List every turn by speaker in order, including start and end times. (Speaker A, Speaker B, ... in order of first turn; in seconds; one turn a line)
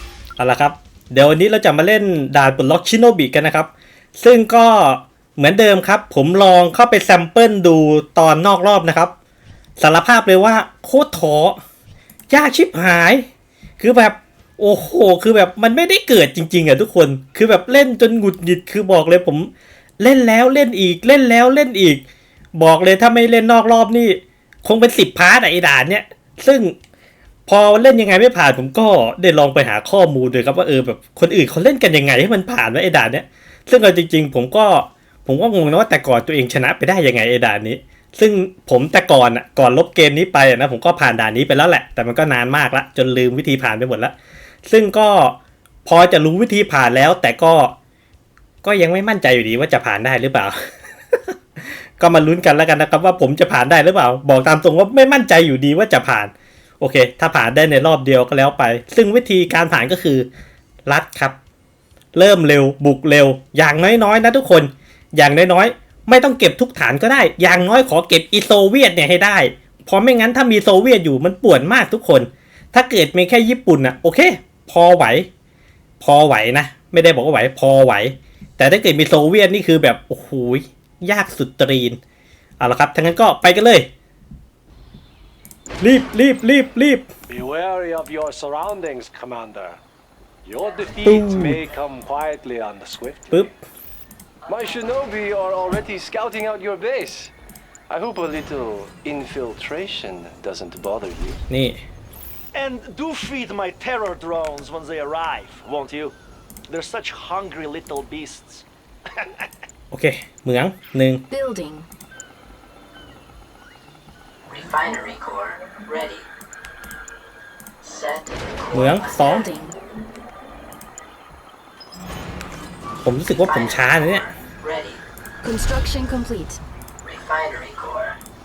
Speaker A: 0.4-9.1
Speaker A: 9.8-11.6
Speaker A: 12.3-13.3
Speaker A: 13.8-26.8
Speaker A: 27.5-44.1
Speaker A: 44.7-47.8
Speaker A: 48.6-60.3
Speaker A: 60.9-61.4
Speaker A: 62.1-75.3
Speaker A: 76.0-82.0
Speaker A: 82.6-83.9
Speaker A: 85.8-87.1
Speaker B: 87.3-89.8
Speaker B: 90.5-93.5
Speaker A: 91.0-91.6
Speaker A: 93.3-93.6
Speaker B: 94.5-97.3
Speaker B: 97.9-101.4
Speaker A: 101.5-101.8
Speaker C: 102.5-106.1
Speaker C: 106.7-108.7
Speaker A: 109.9-111.3
Speaker D: 111.3-111.9
Speaker E: 114.5-116.2
Speaker E: 117.8-118.8
Speaker A: 118.7-119.5
Speaker D: 119.1-119.8
Speaker A: 123.0-124.3
Speaker E: 124.7-125.0
Speaker D: 125.4-126.6
Speaker E: 127.1-128.2